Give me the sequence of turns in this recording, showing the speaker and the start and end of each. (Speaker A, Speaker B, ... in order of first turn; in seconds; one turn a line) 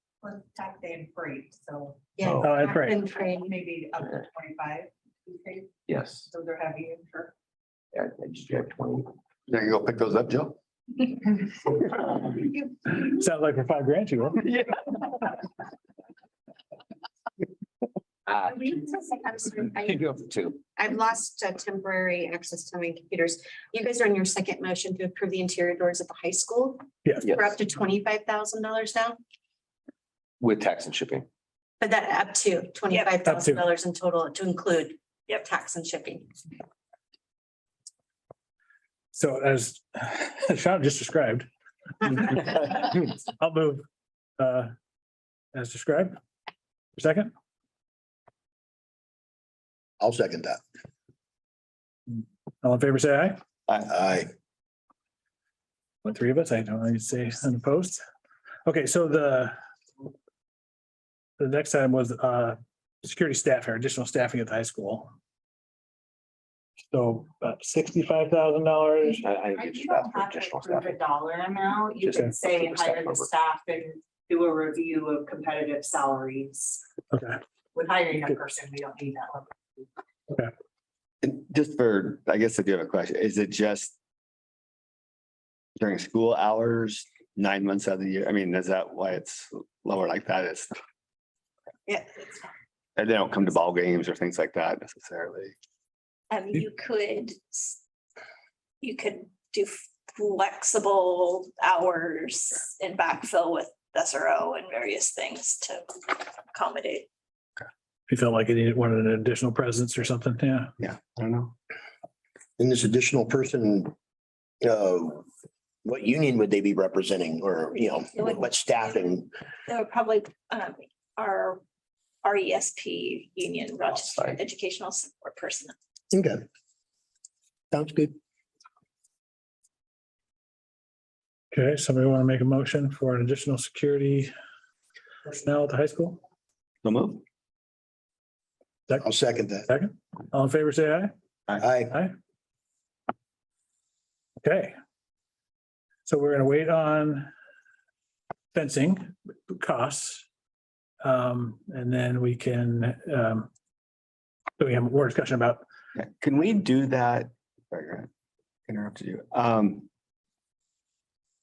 Speaker A: 0.2-2.1
Speaker B: 2.2-3.5
Speaker C: 2.4-3.0
Speaker A: 3.1-5.7
Speaker D: 5.9-6.3
Speaker A: 6.3-7.3
Speaker D: 7.9-9.1
Speaker E: 9.5-10.6
Speaker C: 13.0-14.4
Speaker B: 18.4-20.1
Speaker D: 19.8-20.6
Speaker B: 20.8-29.2
Speaker C: 27.0-27.3
Speaker D: 30.4-31.2
Speaker B: 31.8-36.3
Speaker C: 33.2-33.6
Speaker C: 39.1-41.5
Speaker C: 42.2-43.8
Speaker C: 44.4-44.7
Speaker C: 45.5-46.2
Speaker C: 47.0-47.3
Speaker F: 50.0-50.6
Speaker C: 52.1-53.4
Speaker F: 53.8-54.3
Speaker C: 56.0-58.0
Speaker C: 58.6-59.5
Speaker C: 61.4-65.1
Speaker C: 66.9-69.2
Speaker A: 69.0-76.8
Speaker D: 69.2-70.9
Speaker D: 72.0-73.3
Speaker C: 77.1-77.4
Speaker A: 77.7-79.8
Speaker E: 81.2-83.9
Speaker E: 85.8-90.7
Speaker E: 93.0-95.5
Speaker G: 96.3-97.7
Speaker G: 98.8-105.8
Speaker G: 106.5-107.1
Speaker C: 108.1-110.7
Speaker E: 110.8-111.5
Speaker F: 112.6-113.9
Speaker F: 114.6-115.2
Speaker F: 115.8-119.3
Speaker G: 119.7-121.6
Speaker G: 122.2-125.7
Speaker F: 126.1-126.4
Speaker F: 127.7-128.1
Speaker C: 131.5-134.3
Speaker C: 135.2-136.2
Speaker E: 136.8-137.2
Speaker F: 139.0-139.7
Speaker C: 139.7-141.1
Speaker F: 141.6-142.0
Speaker C: 144.4-144.8
Speaker C: 146.1-147.3
Speaker C: 148.5-150.2
Speaker C: 151.0-153.5
Speaker C: 154.6-155.6
Speaker E: 155.9-158.1
Speaker E: 158.7-159.9